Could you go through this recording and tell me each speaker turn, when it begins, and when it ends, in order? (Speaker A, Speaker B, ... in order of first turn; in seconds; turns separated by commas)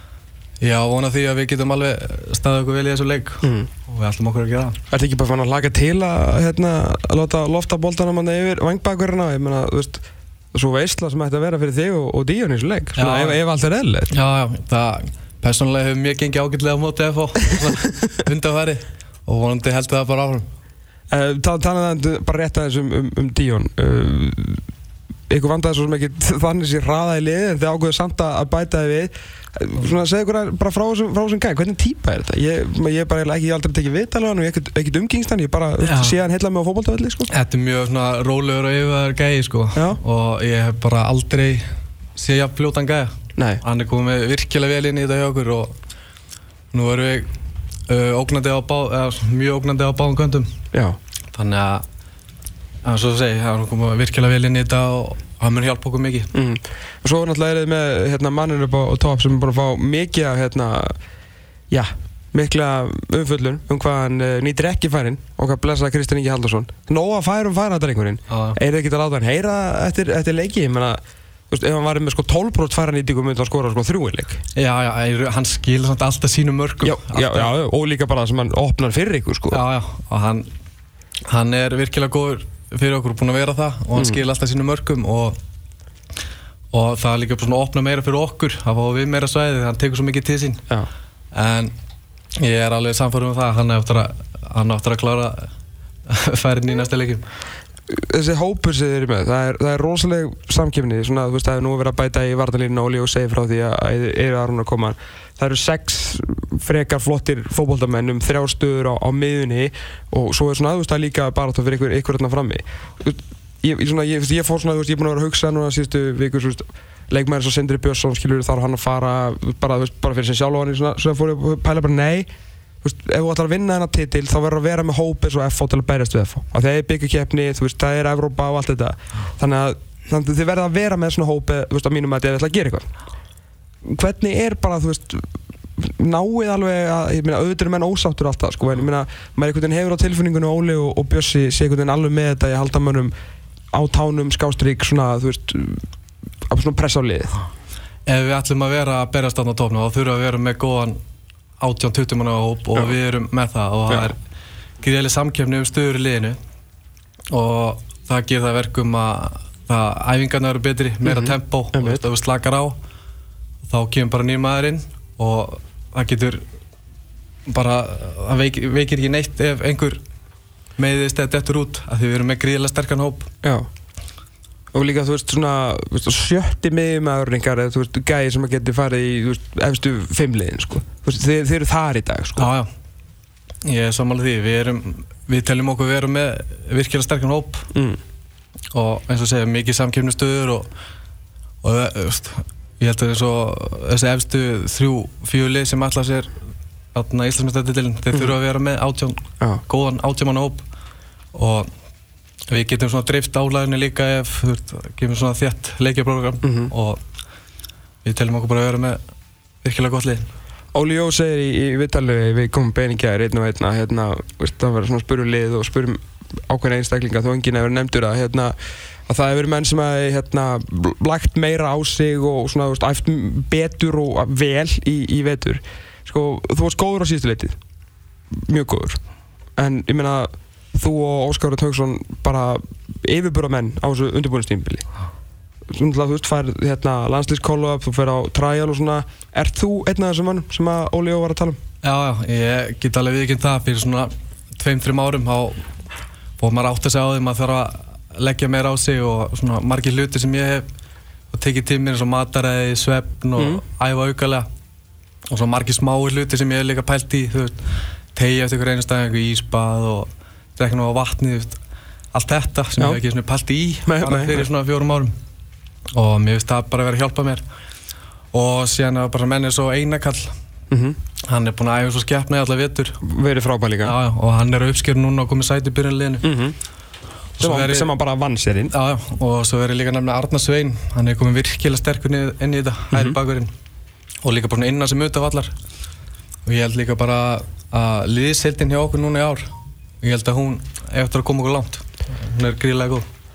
Speaker A: 0.6-4.8, Speaker B: 3.4-3.7, Speaker B: 4.9-14.1, Speaker A: 13.0-13.4, Speaker A: 14.1-20.5, Speaker B: 21.1-24.6, Speaker B: 25.3-37.3, Speaker A: 35.8-36.2, Speaker A: 37.3-45.8, Speaker B: 43.4-43.6, Speaker A: 46.7-47.3, Speaker A: 47.9-50.5, Speaker A: 51.3-51.8, Speaker A: 52.8-56.3, Speaker B: 56.3-61.0, Speaker B: 61.7-74.4, Speaker A: 68.3-68.6, Speaker A: 74.6-77.5, Speaker B: 76.8-79.6, Speaker A: 79.5-80.5, Speaker A: 81.2-85.4, Speaker A: 86.7-90.7, Speaker A: 91.3-91.7, Speaker A: 92.4-95.5, Speaker A: 96.1-97.2, Speaker B: 97.9-122.3, Speaker B: 122.8-132.9, Speaker B: 133.8-143.1, Speaker B: 143.7-145.8, Speaker B: 146.5-147.3, Speaker A: 148.1-151.0, Speaker A: 151.6-154.2, Speaker A: 154.8-156.4, Speaker A: 157.3-162.8, Speaker B: 161.1-162.0, Speaker A: 163.7-166.4, Speaker A: 167.5-170.0, Speaker A: 170.8-173.3, Speaker B: 173.4-173.7, Speaker B: 174.7-182.5, Speaker A: 182.4-182.7, Speaker A: 183.6-187.7, Speaker B: 187.7-188.0, Speaker A: 188.7-190.7, Speaker A: 191.6-196.3, Speaker A: 196.9-200.7, Speaker A: 201.3-201.7, Speaker A: 202.5-207.0, Speaker B: 206.4-206.7, Speaker A: 208.0-209.0, Speaker A: 209.6-210.3, Speaker B: 210.7-218.6, Speaker B: 219.1-227.6, Speaker B: 228.3-229.0, Speaker B: 229.6-234.8, Speaker B: 235.7-241.6, Speaker A: 241.8-245.7, Speaker A: 246.4-250.7, Speaker A: 251.3-254.5, Speaker B: 253.4-253.6, Speaker A: 255.3-261.6, Speaker A: 262.1-265.1, Speaker B: 263.9-264.5, Speaker A: 265.9-267.4, Speaker A: 268.3-270.4, Speaker B: 270.7-271.0, Speaker A: 271.2-273.0, Speaker B: 273.0-274.0, Speaker A: 273.8-276.3, Speaker B: 276.2-276.6, Speaker A: 277.4-277.9, Speaker B: 277.4-278.7, Speaker A: 278.7-283.5, Speaker A: 284.2-285.5, Speaker A: 286.4-289.5, Speaker A: 290.0-293.1